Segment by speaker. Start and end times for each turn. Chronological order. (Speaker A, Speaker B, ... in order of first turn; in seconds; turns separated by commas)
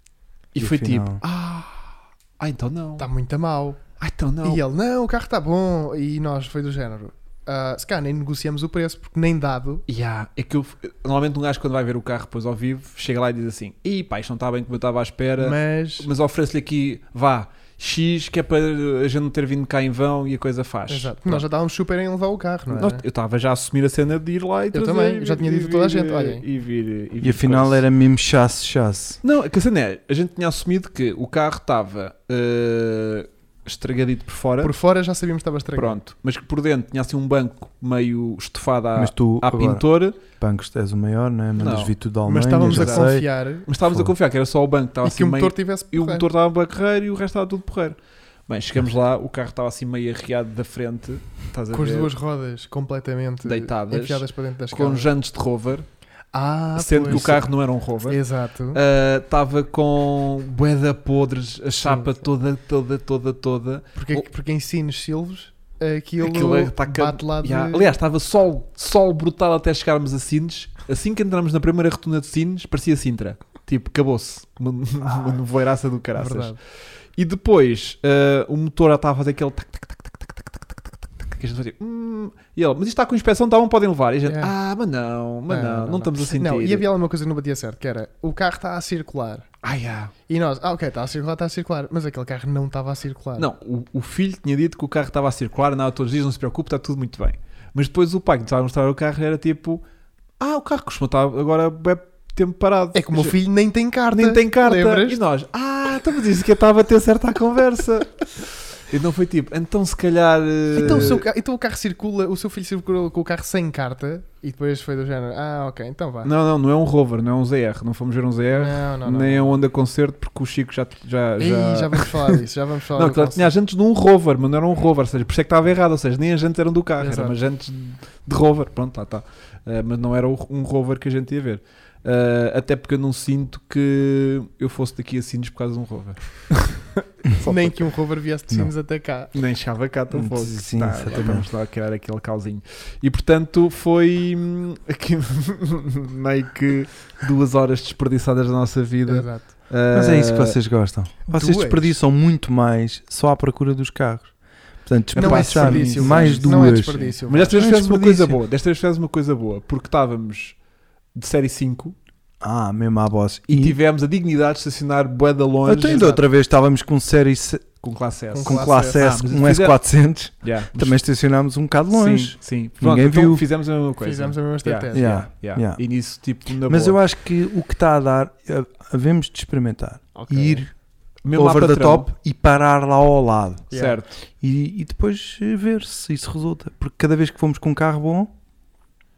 Speaker A: 0.5-3.1, Speaker B: 0.6-1.2, Speaker C: 3.0-3.8, Speaker A: 4.0-4.6, Speaker C: 4.4-9.8, Speaker A: 9.9-21.4, Speaker C: 15.4-16.1, Speaker C: 20.9-23.0, Speaker A: 22.7-27.8, Speaker C: 24.7-26.4, Speaker B: 27.2-29.2, Speaker A: 29.2-34.7, Speaker C: 34.6-36.0, Speaker A: 35.8-40.2, Speaker B: 39.0-43.2, Speaker A: 41.6-41.9, Speaker C: 42.2-43.7, Speaker A: 42.6-52.1, Speaker C: 45.0-46.3, Speaker C: 51.7-55.1, Speaker A: 53.4-55.9, Speaker C: 56.3-58.8, Speaker A: 56.8-64.2, Speaker C: 61.8-62.2, Speaker C: 64.0-68.0, Speaker A: 66.2-86.9, Speaker C: 76.2-76.6, Speaker C: 84.3-84.5, Speaker C: 85.5-89.5, Speaker A: 89.6-90.1, Speaker C: 90.3-93.5, Speaker A: 93.4-99.8, Speaker A: 100.4-103.4, Speaker C: 102.9-105.2, Speaker A: 104.1-111.2, Speaker C: 110.8-116.3, Speaker A: 116.2-122.4, Speaker C: 118.5-119.6, Speaker C: 121.4-123.5, Speaker A: 123.0-137.8, Speaker C: 127.0-127.4, Speaker C: 137.4-139.3, Speaker A: 139.3-150.6, Speaker B: 140.1-141.5, Speaker C: 149.1-149.5, Speaker B: 149.9-154.3, Speaker C: 151.3-151.9, Speaker B: 154.8-158.3, Speaker A: 155.1-160.6, Speaker C: 155.2-158.2, Speaker A: 161.1-162.0, Speaker B: 162.4-163.8, Speaker A: 163.5-166.2, Speaker B: 165.7-167.7, Speaker A: 167.8-169.8, Speaker C: 168.3-169.0, Speaker B: 168.4-173.4, Speaker A: 170.4-171.0, Speaker A: 171.9-177.0, Speaker C: 174.0-175.1, Speaker B: 174.9-175.8, Speaker B: 176.7-180.7, Speaker C: 180.2-180.7, Speaker A: 181.2-182.1, Speaker B: 181.3-183.7, Speaker C: 183.7-184.0, Speaker A: 183.7-184.2, Speaker B: 184.4-188.3